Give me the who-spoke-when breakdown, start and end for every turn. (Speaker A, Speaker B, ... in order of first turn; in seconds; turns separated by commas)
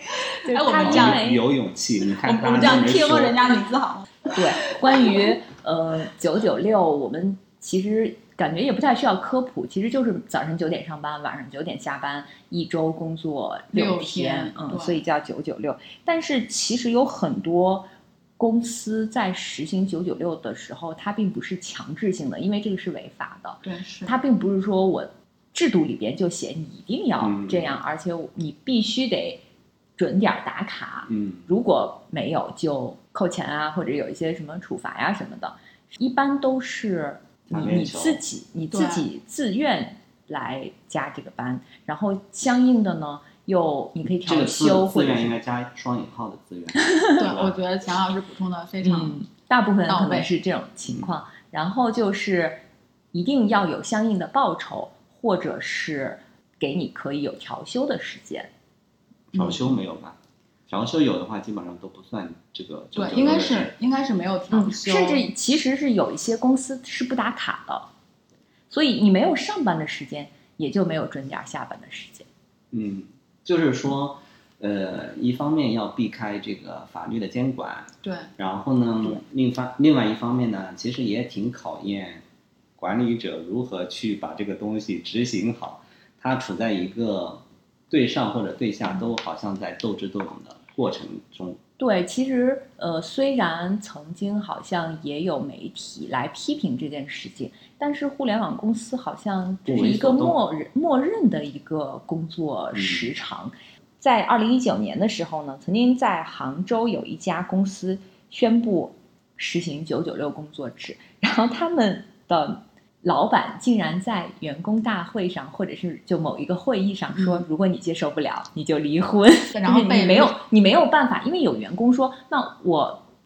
Speaker A: 0.4-1.4, Speaker B: 0.5-1.2, Speaker C: 0.8-3.4, Speaker B: 2.2-5.3, Speaker A: 4.3-29.4, Speaker B: 13.7-15.0, Speaker B: 23.6-24.1, Speaker C: 27.2-27.8, Speaker A: 30.0-45.4, Speaker C: 31.1-31.5, Speaker C: 37.5-38.2, Speaker B: 38.7-39.0, Speaker C: 44.1-47.6, Speaker B: 47.2-49.2, Speaker A: 48.8-52.6, Speaker B: 49.9-50.3, Speaker A: 53.1-58.5, Speaker C: 59.3-60.2, Speaker B: 59.3-59.7, Speaker C: 60.7-63.7, Speaker B: 63.0-65.3, Speaker A: 64.5-67.9, Speaker A: 68.7-72.3, Speaker C: 72.7-82.2, Speaker B: 78.0-78.3, Speaker C: 82.8-91.6, Speaker A: 91.8-123.0, Speaker C: 99.7-100.4, Speaker C: 102.7-103.1, Speaker B: 117.2-117.5, Speaker B: 119.5-120.4